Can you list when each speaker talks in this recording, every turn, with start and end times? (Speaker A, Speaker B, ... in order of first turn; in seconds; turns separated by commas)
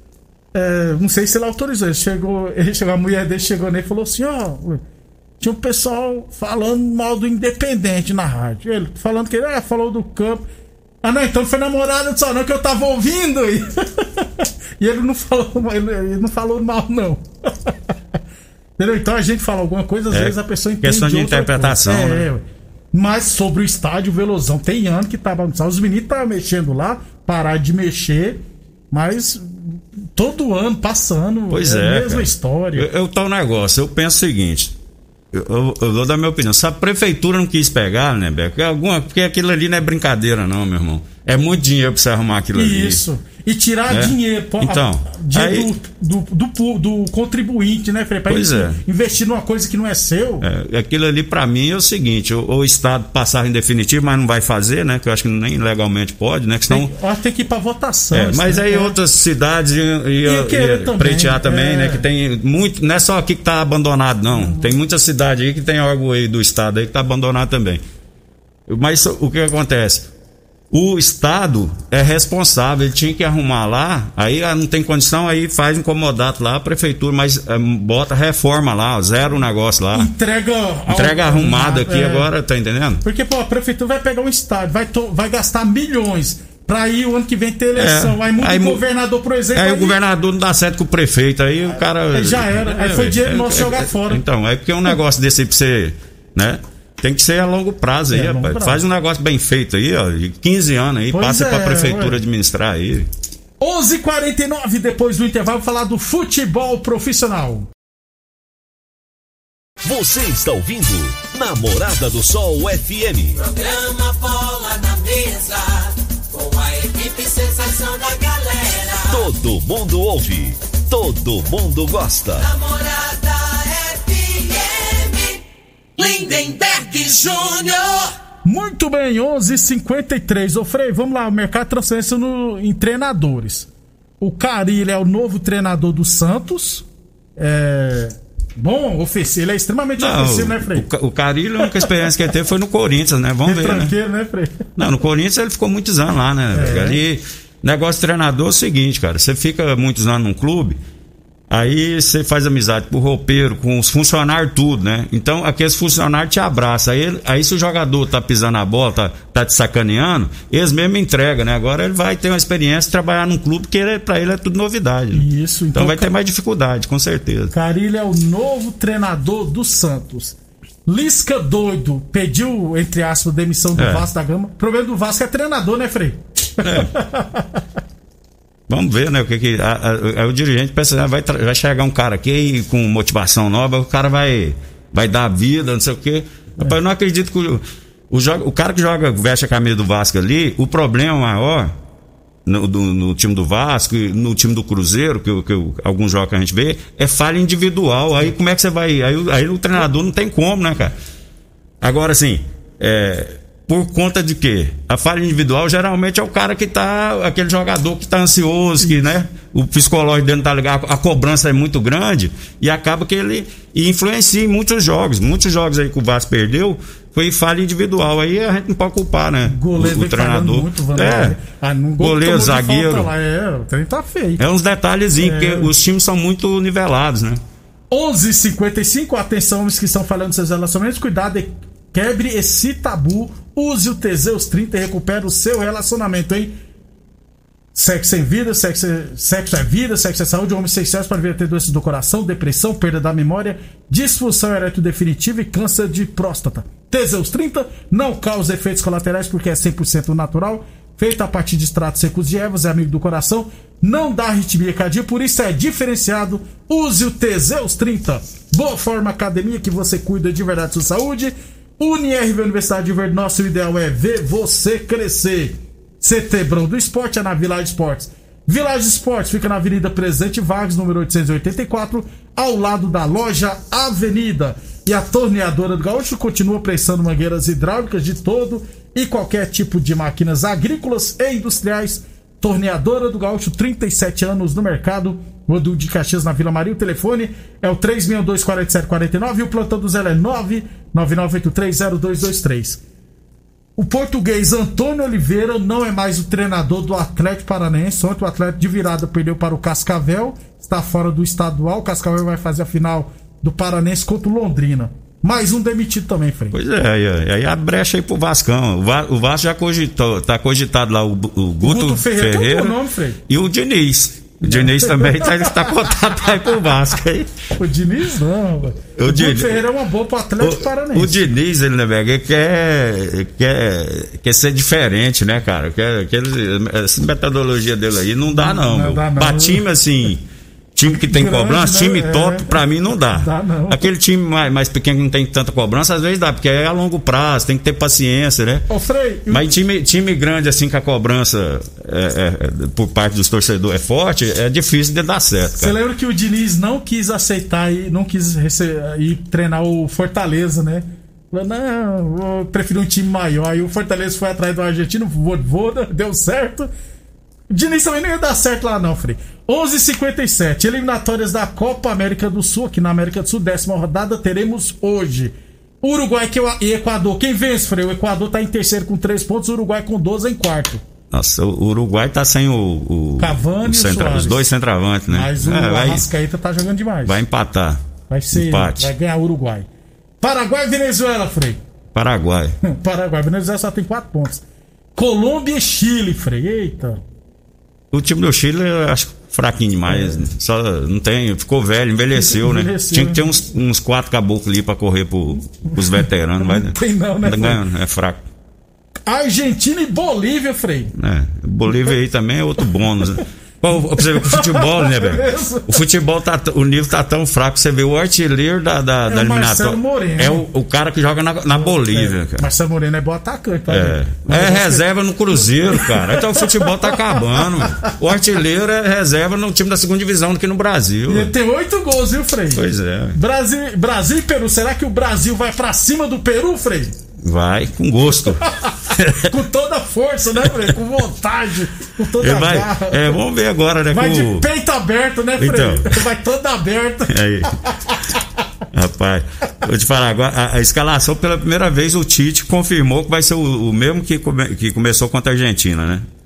Speaker A: 0.5-4.8, Speaker A: 5.4-10.4, Speaker A: 11.0-17.7, Speaker A: 18.8-32.9, Speaker B: 20.1-22.3, Speaker B: 31.5-34.8, Speaker B: 35.3-43.0, Speaker A: 42.5-50.5, Speaker B: 43.9-45.7, Speaker B: 48.3-48.8, Speaker B: 50.4-56.9, Speaker A: 56.7-59.0, Speaker B: 58.1-67.8, Speaker A: 60.2-62.0, Speaker A: 64.4-64.7, Speaker B: 68.7-70.1, Speaker B: 70.7-80.1, Speaker A: 79.9-82.3, Speaker B: 80.9-83.0, Speaker A: 83.0-90.0, Speaker B: 87.8-88.8, Speaker B: 89.5-103.1, Speaker A: 92.1-94.2, Speaker A: 98.1-98.8, Speaker A: 101.1-102.2, Speaker A: 103.6-107.7, Speaker C: 109.8-113.4, Speaker D: 113.4-119.3, Speaker C: 119.1-122.5, Speaker D: 122.4-125.5, Speaker D: 126.0-128.1, Speaker A: 128.4-133.7, Speaker A: 134.2-136.8, Speaker A: 137.4-140.9, Speaker B: 140.0-144.0, Speaker A: 141.6-141.9, Speaker A: 143.4-144.7, Speaker B: 144.8-150.8, Speaker A: 146.5-147.0, Speaker B: 151.5-167.5, Speaker A: 165.1-166.1, Speaker A: 167.5-177.6, Speaker B: 173.8-174.1, Speaker B: 176.6-176.9, Speaker B: 178.7-191.8, Speaker B: 192.5-200.9, Speaker B: 201.8-221.4, Speaker A: 208.8-209.1, Speaker A: 219.4-224.4, Speaker B: 222.0-223.1, Speaker B: 224.4-227.4, Speaker A: 225.2-225.7, Speaker A: 227.9-236.5, Speaker A: 237.8-292.8, Speaker A: 293.8-306.6, Speaker B: 306.5-312.8, Speaker A: 311.6-313.2, Speaker B: 313.3-317.3, Speaker A: 314.4-315.8, Speaker A: 317.6-321.2, Speaker B: 318.9-319.6, Speaker B: 320.4-330.2, Speaker A: 328.3-329.6, Speaker B: 330.8-338.7, Speaker A: 330.9-332.6, Speaker A: 333.1-333.9, Speaker A: 338.7-339.5, Speaker B: 339.3-345.8, Speaker A: 345.6-356.7, Speaker A: 357.5-370.8, Speaker B: 371.1-376.1, Speaker A: 373.2-374.4, Speaker A: 375.1-377.2, Speaker B: 377.1-378.9, Speaker A: 378.1-379.7, Speaker A: 380.2-381.6, Speaker B: 381.9-382.6, Speaker A: 382.6-384.4, Speaker A: 384.9-387.0, Speaker B: 387.9-398.3, Speaker A: 389.9-390.2, Speaker A: 392.1-393.3, Speaker A: 395.7-397.6, Speaker A: 399.1-400.9, Speaker B: 400.9-412.5, Speaker A: 404.0-405.8, Speaker A: 409.1-410.4, Speaker A: 411.5-414.9, Speaker B: 413.7-421.3, Speaker A: 415.6-417.9, Speaker A: 421.1-426.9, Speaker B: 422.5-423.2, Speaker B: 427.2-429.3, Speaker A: 428.4-433.2, Speaker B: 430.4-430.8, Speaker B: 432.2-434.5, Speaker A: 433.9-438.1, Speaker B: 435.4-436.1, Speaker B: 437.1-437.5, Speaker B: 438.7-446.1